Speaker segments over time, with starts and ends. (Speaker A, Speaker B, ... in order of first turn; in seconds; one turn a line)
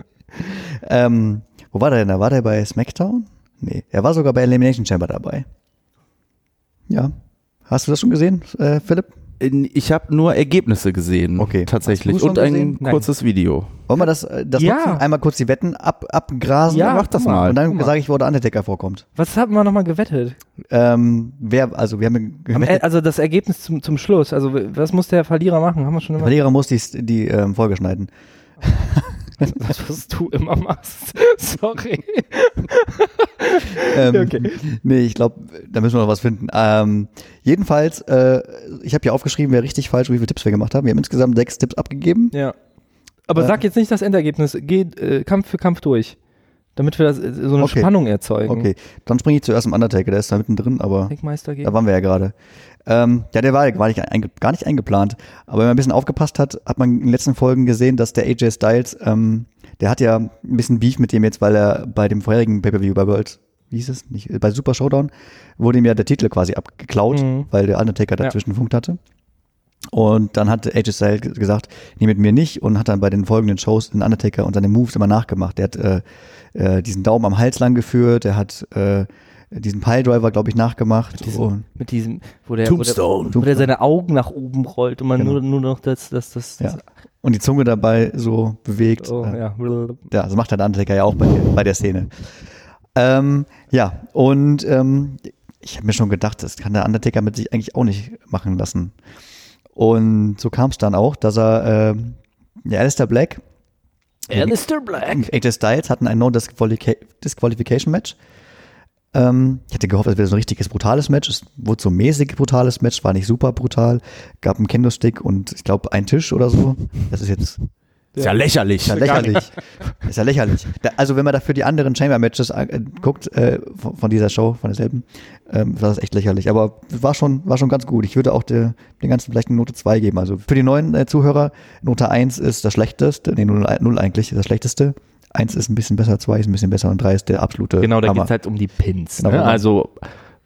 Speaker A: 0.4-5.5
Speaker A: 7.7-9.1
Speaker B: 9.4-13.8
Speaker A: 11.4-12.8
Speaker C: 12.8-13.1
Speaker A: 13.9-19.0
Speaker C: 14.6-15.0
Speaker C: 16.7-17.9
Speaker B: 16.7-17.6
Speaker C: 19.1-20.4
Speaker A: 20.7-22.8
Speaker C: 22.5-26.4
Speaker A: 26.2-28.1
Speaker A: 28.6-29.5
Speaker C: 29.4-34.6
Speaker A: 33.8-42.3
Speaker C: 43.3-46.1
Speaker C: 46.8-48.7
Speaker A: 47.6-47.9
Speaker A: 48.4-52.3
Speaker C: 51.1-51.7
Speaker A: 52.9-69.0
Speaker C: 67.1-67.5
Speaker A: 69.9-81.6
Speaker C: 81.8-86.8
Speaker B: 82.6-83.4
Speaker A: 83.3-83.7
Speaker A: 86.6-89.4
Speaker C: 89.0-90.0
Speaker A: 90.1-92.1
Speaker A: 92.9-98.9
Speaker A: 99.8-103.4
Speaker A: 104.3-108.2
Speaker C: 104.3-105.3
Speaker A: 109.1-117.6
Speaker B: 118.2-119.4
Speaker A: 118.8-138.3
Speaker C: 118.9-119.5
Speaker C: 137.8-140.0
Speaker A: 139.2-139.6